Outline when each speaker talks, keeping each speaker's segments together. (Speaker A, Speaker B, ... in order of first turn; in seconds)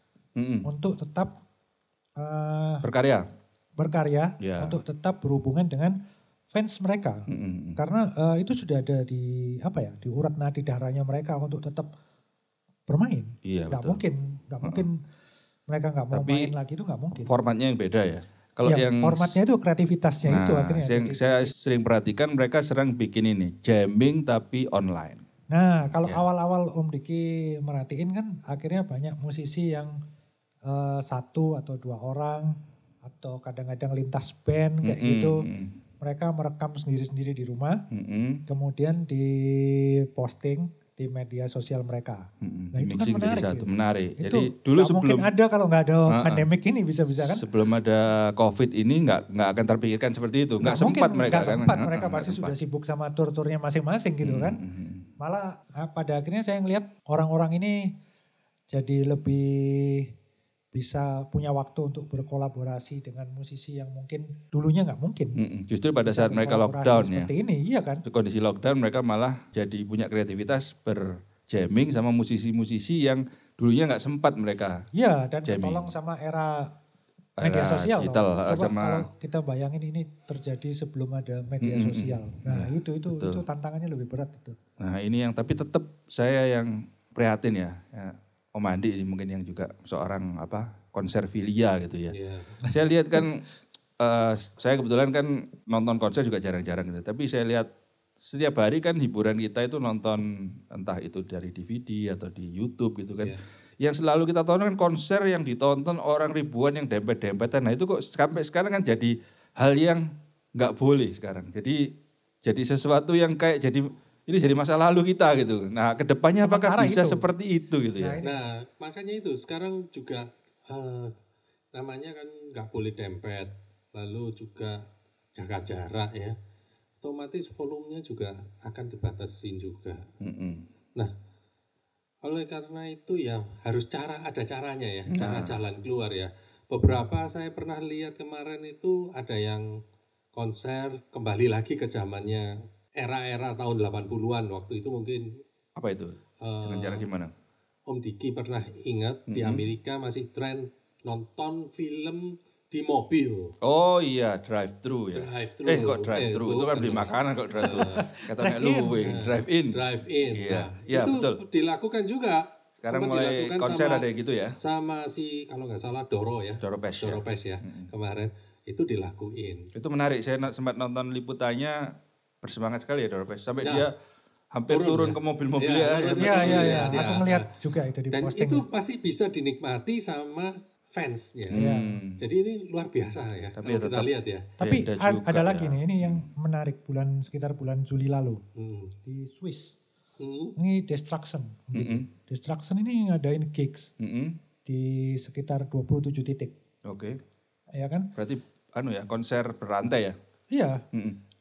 Speaker A: 0.3-0.7, 2.8-3.2, 4.4-4.8, 7.3-7.8, 13.4-14.0, 16.1-16.5, 17.2-19.4, 20.2-25.2, 34.8-35.8, 37.9-38.4, 42.4-45.3, 46.1-46.4, 47.1-52.5, 54.2-55.0, 65.3-67.3, 68.0-74.8, 75.4-75.9, 77.4-79.1, 81.6-83.4, 84.8-92.1, 92.7-93.4, 94.0-97.7, 98.2-111.8, 112.4-118.2, 130.2-130.7, 135.1-135.6, 145.7-147.3, 149.3-149.7, 153.6-159.8, 160.3-161.4, 162.8-164.6, 166.6-167.9, 169.7-171.8, 172.4-173.9, 174.5-177.2, 181.5-182.2, 183.6-186.3, 191.7-192.1, 194.0-194.4, 196.8-197.2, 198.2-200.2, 200.9-201.2
Speaker B: 0.6-1.3, 2.2-2.9, 3.8-6.0, 6.5-11.9, 12.9-15.0, 15.7-17.3, 18.7-21.5, 25.5-30.0, 30.7-35.5, 36.0-37.8, 38.5-47.4, 50.6-54.6, 55.2-57.9, 58.7-60.1, 60.7-65.4, 66.0-68.0, 74.9-76.7, 77.4-84.6, 92.6-93.2, 116.4-117.3, 118.0-118.4, 157.7-159.1, 176.2-178.7, 181.5-182.0, 184.6-188.4, 189.1-189.8, 190.6-193.9, 194.7-196.5, 197.7-198.1, 200.5-200.8
Speaker C: 92.1-92.6, 118.2-121.1, 121.7-124.8, 125.3-126.3, 127.0-130.1, 132.2-139.7, 140.3-145.4, 146.4-147.1, 147.9-153.5, 155.1-158.1, 159.0-169.7, 174.7-177.4, 178.1-181.6, 182.2-184.5, 188.6-188.9, 190.2-190.6